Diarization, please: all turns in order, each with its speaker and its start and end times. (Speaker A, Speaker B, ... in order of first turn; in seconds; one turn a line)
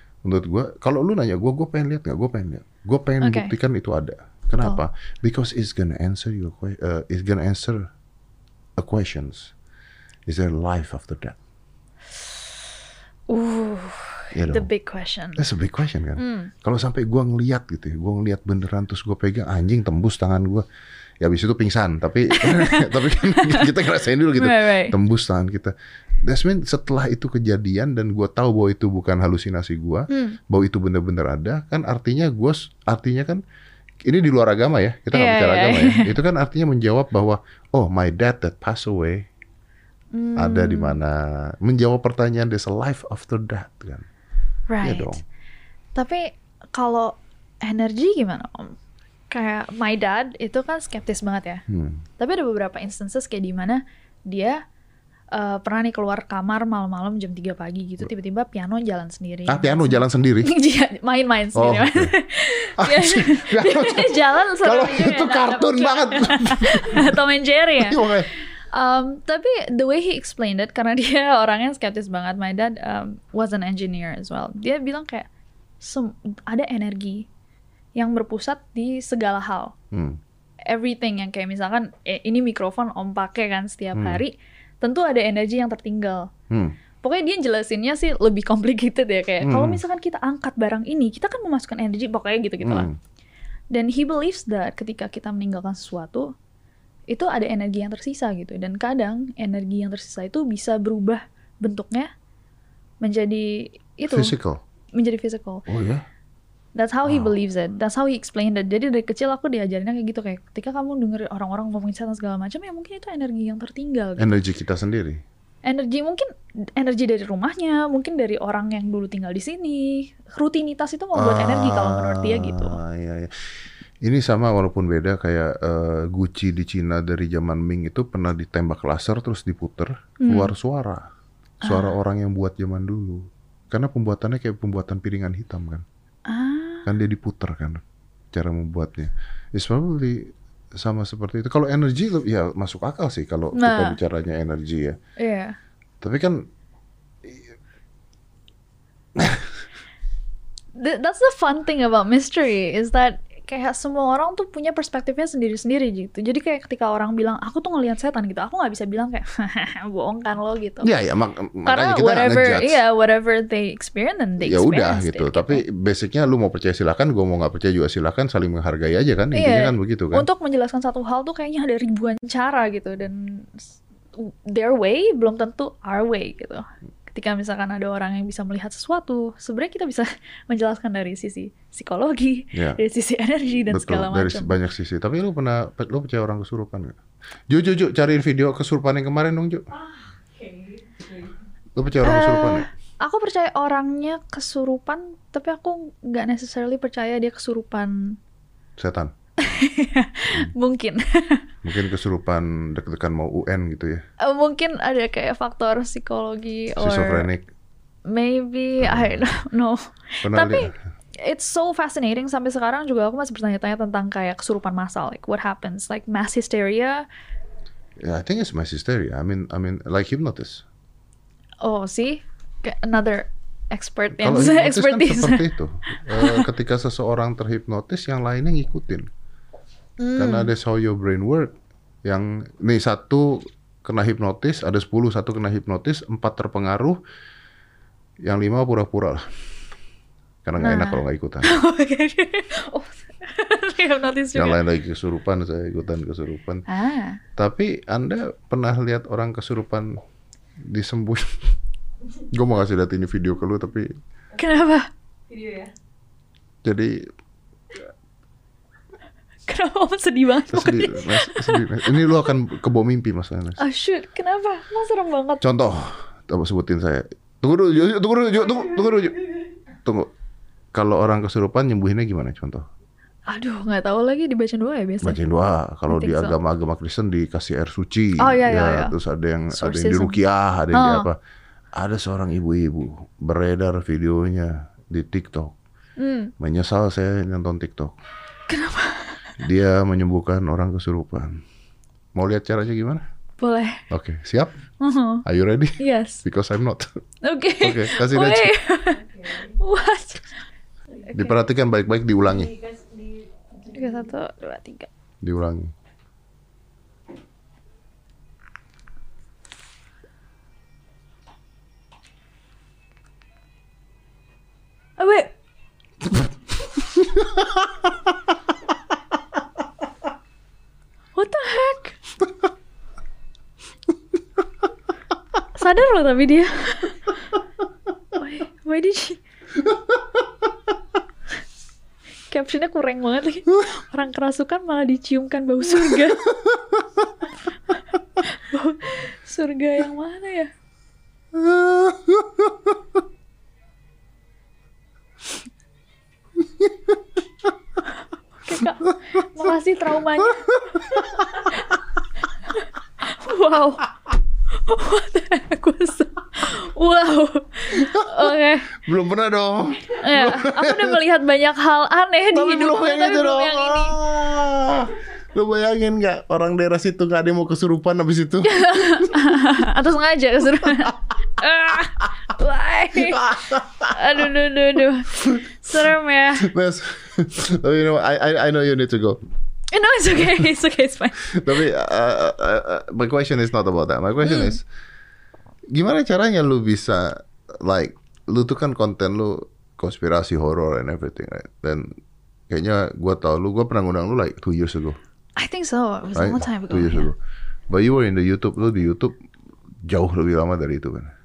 Speaker A: 0.2-7.9
Speaker B: 3.2-3.5
Speaker A: 8.8-9.5
Speaker A: 10.3-11.4
Speaker B: 13.3-15.4
Speaker A: 14.3-14.7
Speaker A: 15.3-20.6
Speaker B: 16.2-16.5
Speaker A: 21.2-25.7
Speaker B: 22.4-23.7
Speaker B: 24.4-24.9
Speaker A: 26.2-33.4
Speaker B: 30.1-30.4
Speaker A: 34.0-39.2
Speaker B: 35.1-36.1
Speaker B: 40.1-41.0
Speaker A: 40.4-44.0
Speaker B: 44.7-45.2
Speaker A: 44.8-45.2
Speaker B: 45.9-48.8
Speaker B: 49.3-51.6
Speaker A: 51.7-52.0
Speaker B: 52.2-54.6
Speaker B: 55.3-68.0
Speaker A: 59.5-60.5
Speaker A: 61.5-62.1
Speaker A: 62.8-67.2
Speaker A: 67.8-68.3
Speaker B: 68.7-75.3
Speaker B: 75.8-77.3
Speaker B: 78.0-79.7
Speaker A: 79.9-80.2
Speaker B: 80.7-86.3
Speaker A: 83.9-84.2
Speaker A: 86.5-86.7
Speaker B: 87.0-92.9
Speaker A: 89.4-89.8
Speaker A: 92.6-93.0
Speaker B: 93.7-96.3
Speaker B: 97.1-102.1
Speaker B: 103.0-104.3
Speaker A: 104.1-104.6
Speaker B: 104.9-105.7
Speaker A: 105.7-106.0
Speaker B: 106.7-114.3
Speaker A: 114.2-115.2
Speaker B: 115.6-122.8
Speaker A: 121.1-123.3
Speaker A: 124.0-131.1
Speaker B: 130.2-130.5
Speaker A: 131.6-135.8
Speaker B: 131.6-131.9
Speaker B: 136.3-136.9
Speaker A: 136.8-145.0
Speaker B: 143.5-144.0
Speaker B: 145.2-145.6
Speaker A: 146.0-146.4
Speaker A: 147.2-147.6
Speaker A: 149.2-149.4
Speaker B: 150.8-160.9
Speaker A: 160.8-162.8
Speaker B: 161.7-165.6
Speaker A: 164.4-170.3
Speaker B: 169.3-173.7
Speaker B: 174.2-184.5
Speaker A: 182.5-182.8
Speaker A: 183.7-189.7
Speaker C: 189.7-191.3
Speaker A: 191.7-192.7
Speaker B: 192.0-198.2
Speaker A: 198.8-199.1
Speaker B: 199.4-201.5
Speaker A: 201.6-204.0
Speaker B: 204.2-207.3
Speaker A: 206.8-207.5
Speaker B: 208.1-217.0
Speaker A: 208.8-209.2
Speaker A: 210.2-210.7
Speaker A: 218.0-220.6
Speaker B: 221.6-225.4
Speaker A: 224.1-229.1
Speaker B: 226.1-226.5
Speaker B: 230.0-230.5
Speaker A: 230.2-237.0
Speaker A: 238.2-239.3
Speaker A: 240.4-241.5
Speaker B: 240.6-244.6
Speaker A: 244.3-246.6
Speaker B: 246.7-247.2
Speaker A: 247.3-249.9
Speaker A: 250.6-251.3
Speaker A: 252.3-253.9
Speaker B: 254.4-254.9
Speaker C: 255.3-255.7
Speaker A: 256.6-257.0
Speaker B: 259.5-262.0
Speaker A: 260.5-263.6
Speaker B: 263.6-265.4
Speaker A: 265.4-269.2
Speaker A: 269.8-270.1
Speaker A: 270.7-272.6
Speaker B: 273.3-275.2
Speaker A: 275.0-281.2
Speaker B: 275.9-276.4
Speaker B: 278.2-278.9
Speaker B: 279.5-280.2
Speaker B: 280.7-281.1
Speaker A: 281.7-285.6
Speaker B: 286.0-286.3
Speaker A: 286.4-287.9
Speaker B: 288.5-289.2
Speaker A: 289.4-291.4
Speaker A: 292.1-293.0
Speaker B: 293.4-293.8
Speaker A: 293.9-294.6
Speaker B: 294.8-295.2
Speaker A: 295.2-296.9
Speaker B: 295.8-296.2
Speaker B: 297.2-300.3
Speaker A: 297.6-298.5
Speaker C: 298.9-299.6
Speaker A: 301.1-302.5
Speaker C: 302.2-304.1
Speaker B: 303.7-304.9
Speaker A: 305.2-305.7
Speaker B: 315.0-315.3
Speaker A: 317.2-317.4
Speaker B: 321.1-321.9
Speaker B: 325.5-327.1
Speaker B: 328.1-329.2
Speaker B: 332.3-336.4
Speaker B: 338.1-340.5
Speaker A: 341.3-342.8
Speaker A: 346.6-346.9
Speaker B: 348.5-351.4
Speaker A: 350.2-351.2
Speaker B: 353.0-353.9
Speaker B: 354.6-358.7
Speaker A: 357.7-361.0
Speaker B: 359.9-364.0
Speaker A: 362.3-369.6
Speaker B: 368.4-376.5
Speaker A: 370.6-370.9
Speaker A: 372.9-374.2
Speaker A: 376.4-379.2
Speaker B: 379.7-381.5
Speaker A: 381.2-384.6
Speaker B: 384.2-384.6
Speaker A: 385.7-391.9
Speaker A: 392.5-395.0
Speaker B: 395.4-397.1
Speaker A: 396.1-397.2
Speaker A: 397.7-399.1
Speaker A: 399.8-401.1